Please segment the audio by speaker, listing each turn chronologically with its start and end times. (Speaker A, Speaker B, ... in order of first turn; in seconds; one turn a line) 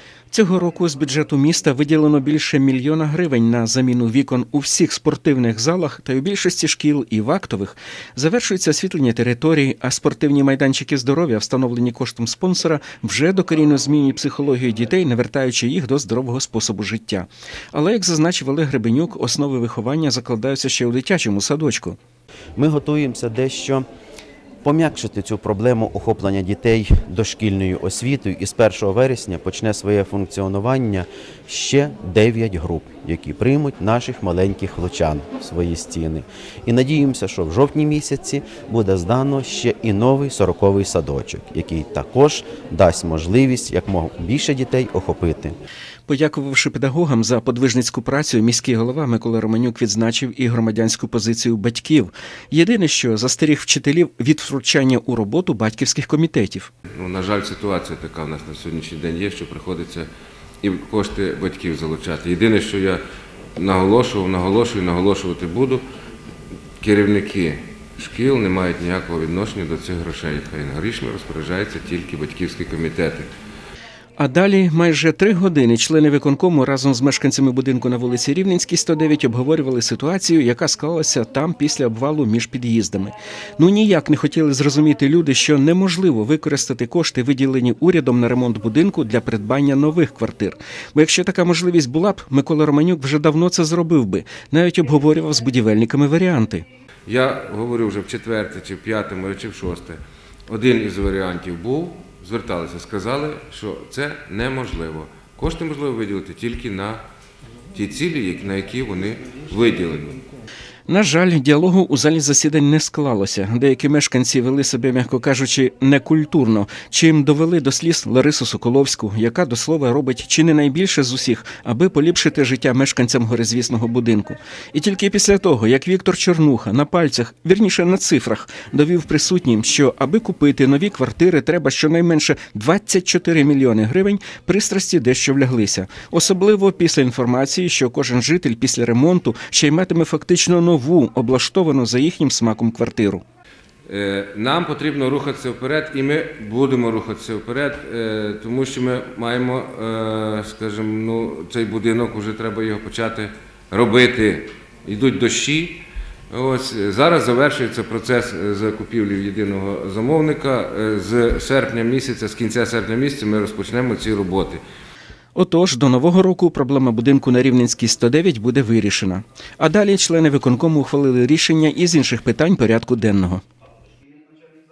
Speaker A: 0.3-22.0
Speaker B: 22.6-23.9
Speaker B: 24.6-45.6
Speaker A: 46.1-56.7
Speaker C: 56.9-60.1
Speaker C: 60.6-63.0
Speaker C: 63.6-65.8
Speaker C: 66.8-73.3
Speaker A: 74.2-96.7
Speaker C: 97.1-107.0
Speaker C: 107.7-110.2
Speaker A: 110.9-143.2
Speaker C: 143.9-164.6
Speaker A: 165.3-173.4